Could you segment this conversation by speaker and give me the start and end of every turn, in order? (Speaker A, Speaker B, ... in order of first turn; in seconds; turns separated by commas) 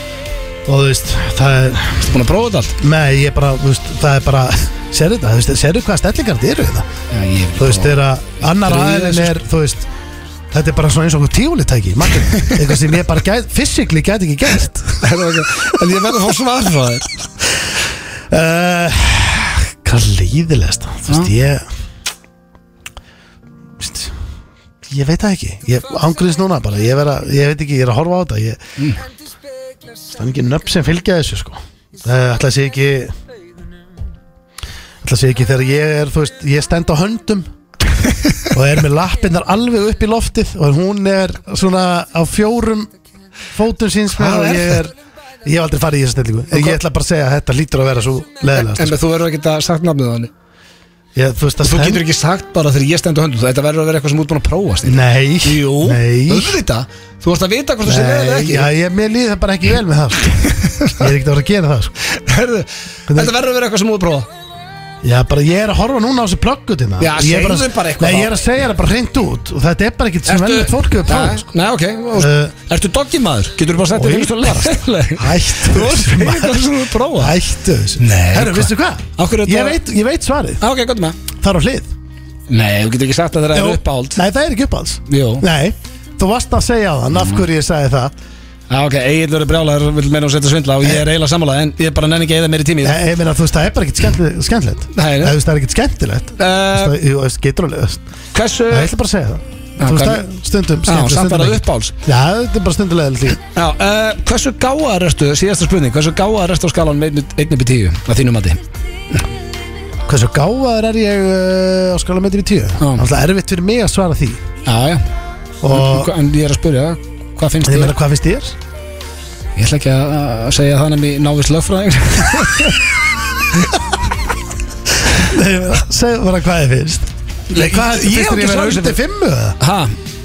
Speaker A: 0.7-2.1, Speaker B: 2.0-2.8, Speaker A: 2.8-6.9, Speaker B: 7.1-9.4, Speaker A: 7.6-9.9, Speaker A: 10.5-15.1, Speaker B: 15.0-17.1, Speaker A: 18.3-21.6, Speaker A: 23.8-24.1, Speaker A: 24.9-28.6, Speaker A: 30.1-33.1, Speaker A: 35.0-37.5, Speaker A: 38.5-42.9, Speaker A: 43.5-49.0, Speaker B: 44.1-44.8, Speaker B: 48.5-50.3, Speaker A: 51.1-52.0, Speaker B: 51.6-58.7, Speaker A: 54.8-56.6, Speaker A: 57.9-60.4, Speaker B: 60.5-61.0, Speaker A: 61.0-61.9, Speaker B: 62.0-64.3, Speaker A: 63.1-63.3, Speaker A: 65.0-71.5, Speaker B: 67.0-68.3, Speaker B: 70.3-77.4, Speaker A: 72.1-72.5, Speaker A: 73.9-80.6, Speaker B: 78.0-79.8, Speaker B: 80.6-81.2, Speaker A: 81.4-81.9, Speaker B: 82.5-84.2, Speaker A: 83.5-88.1, Speaker B: 85.1-85.5, Speaker B: 88.7-93.0, Speaker A: 92.8-98.0, Speaker B: 94.9-95.4, Speaker B: 96.4-97.0, Speaker B: 98.3-98.9, Speaker A: 98.7-103.4, Speaker B: 99.8-100.3, Speaker B: 100.9-102.0, Speaker B: 103.5-108.6, Speaker A: 110.1-114.4, Speaker B: 112.8-113.1, Speaker B: 114.7-115.0, Speaker A: 115.6-116.1, Speaker B: 115.7-118.0, Speaker A: 117.6-118.6, Speaker B: 119.6-122.9, Speaker A: 125.1-129.6, Speaker B: 127.5-129.0, Speaker B: 129.6-129.9